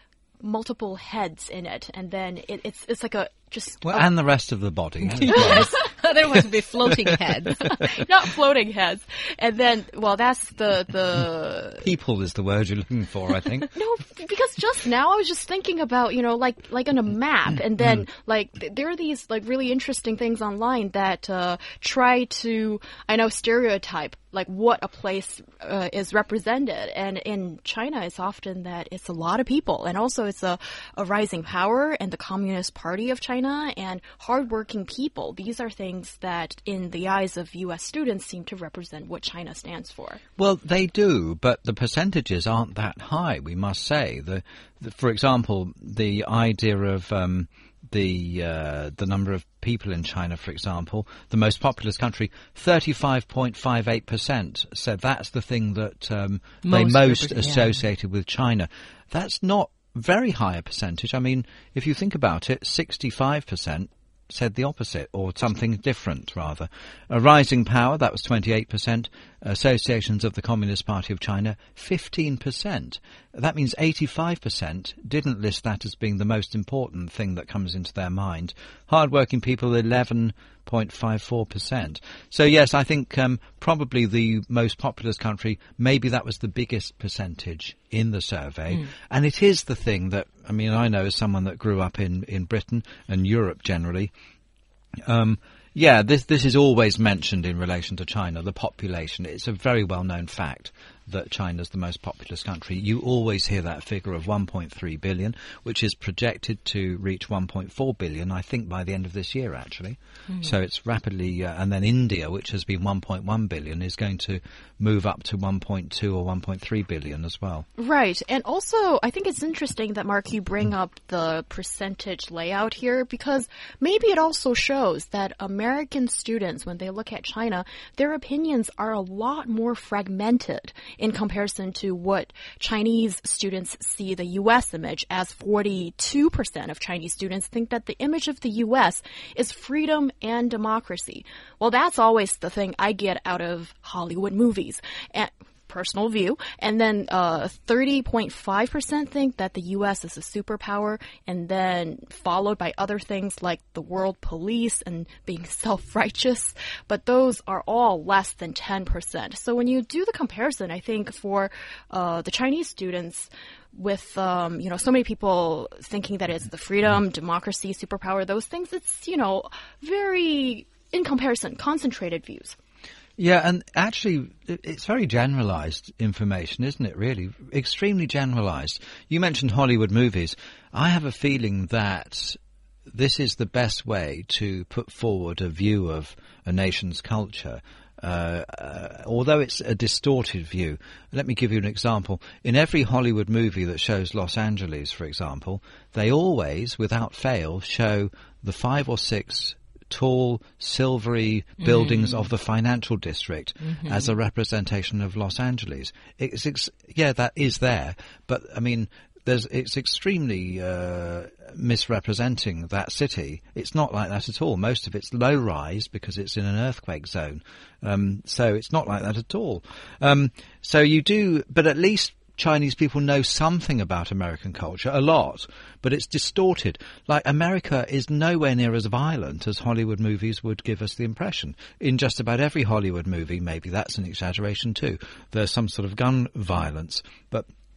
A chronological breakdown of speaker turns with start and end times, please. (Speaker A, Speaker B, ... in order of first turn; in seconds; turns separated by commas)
Speaker A: 0.4-4.0, Speaker B: 3.8-5.8, Speaker C: 5.2-7.8, Speaker A: 5.4-5.7, Speaker A: 7.7-11.9, Speaker B: 11.8-13.7, Speaker A: 13.7-40.2, Speaker B: 40.4-94.1, Speaker C: 56.6-57.8, Speaker B: 95.0-117.7, Speaker A: 117.8-172.6, Speaker B: 173.2-182.4, Speaker B: 182.9-237.4, Speaker C: 201.6-202.2, Speaker C: 203.7-204.1